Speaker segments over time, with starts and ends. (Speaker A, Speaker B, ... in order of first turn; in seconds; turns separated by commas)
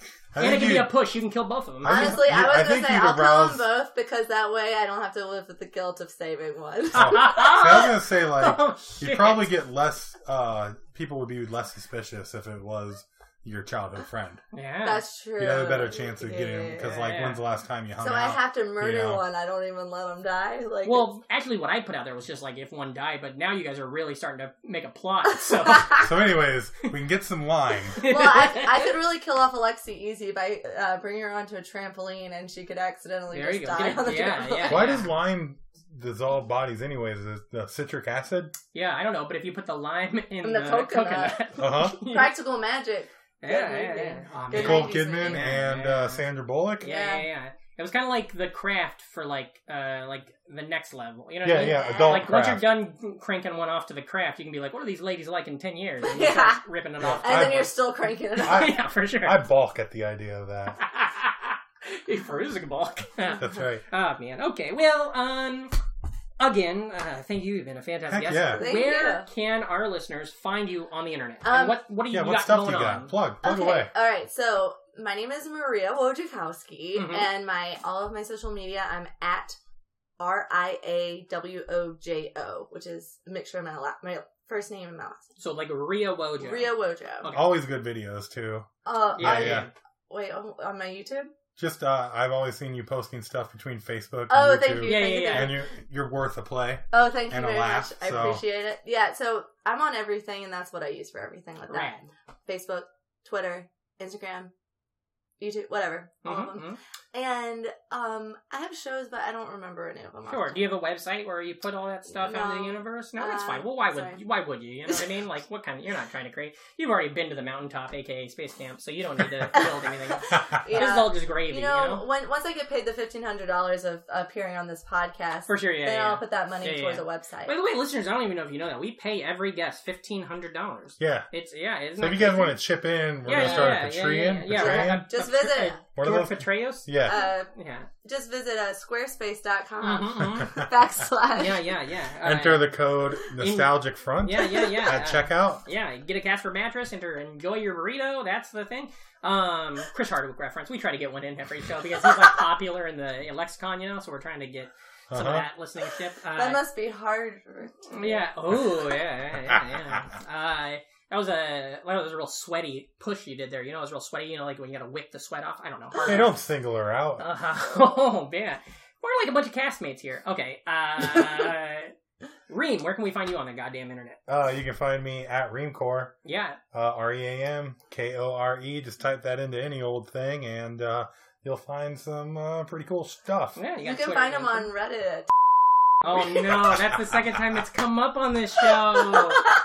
Speaker A: 0.3-0.9, Speaker B: 0.4-2.2, Speaker A: 1.8-3.7, Speaker C: 1.8-7.3, Speaker B: 6.9-9.5, Speaker A: 6.9-14.4, Speaker B: 14.5-15.0, Speaker C: 14.8-16.9, Speaker A: 15.4-19.2, Speaker B: 16.8-17.4, Speaker C: 18.0-21.1, Speaker B: 20.8-26.0, Speaker C: 25.5-26.0, Speaker A: 26.0-28.0, Speaker B: 28.0-28.8, Speaker C: 28.0-34.9, Speaker B: 33.3-35.1, Speaker A: 34.6-38.5, Speaker B: 38.7-42.3, Speaker C: 40.4-45.5, Speaker A: 41.6-42.0, Speaker B: 43.4-46.2, Speaker A: 44.5-46.9, Speaker B: 46.8-57.7, Speaker C: 46.8-47.3, Speaker A: 51.4-52.7, Speaker C: 51.5-52.3, Speaker C: 56.0-56.6, Speaker A: 57.0-57.7, Speaker C: 57.2-58.7, Speaker B: 58.4-59.4, Speaker A: 58.5-60.8, Speaker B: 60.8-65.7, Speaker A: 63.4-63.8, Speaker B: 66.4-73.1, Speaker A: 68.1-68.7, Speaker C: 68.3-69.3, Speaker C: 71.4-71.8, Speaker A: 72.1-73.9, Speaker C: 73.4-79.5, Speaker B: 76.9-77.3, Speaker C: 80.2-85.3, Speaker B: 85.4-87.5, Speaker C: 86.4-87.3, Speaker A: 87.3-88.7, Speaker C: 88.8-91.3, Speaker B: 89.2-89.7, Speaker A: 89.2-89.7, Speaker A: 91.6-98.4, Speaker C: 94.3-95.6, Speaker B: 94.8-95.6, Speaker C: 96.9-104.5, Speaker B: 101.7-102.0, Speaker C: 105.4-110.6, Speaker B: 106.2-106.8, Speaker B: 110.3-122.0, Speaker C: 112.1-114.2, Speaker C: 120.4-127.5, Speaker B: 125.5-132.6, Speaker A: 131.0-131.3, Speaker A: 132.0-135.1, Speaker B: 133.2-137.9, Speaker C: 133.3-133.8, Speaker C: 134.5-135.8, Speaker A: 135.9-137.2, Speaker C: 137.1-137.5, Speaker C: 138.0-141.7, Speaker B: 139.8-140.6, Speaker B: 141.3-142.7, Speaker A: 142.2-145.6, Speaker B: 143.4-156.6, Speaker A: 155.1-155.4, Speaker C: 156.3-158.2, Speaker B: 157.9-166.3, Speaker A: 166.1-167.2, Speaker B: 167.2-171.9, Speaker B: 172.5-174.2, Speaker A: 174.3-176.1, Speaker B: 176.2-176.6, Speaker A: 176.7-183.6, Speaker B: 183.6-184.7, Speaker C: 183.8-185.3, Speaker B: 186.0-189.4, Speaker C: 189.1-189.5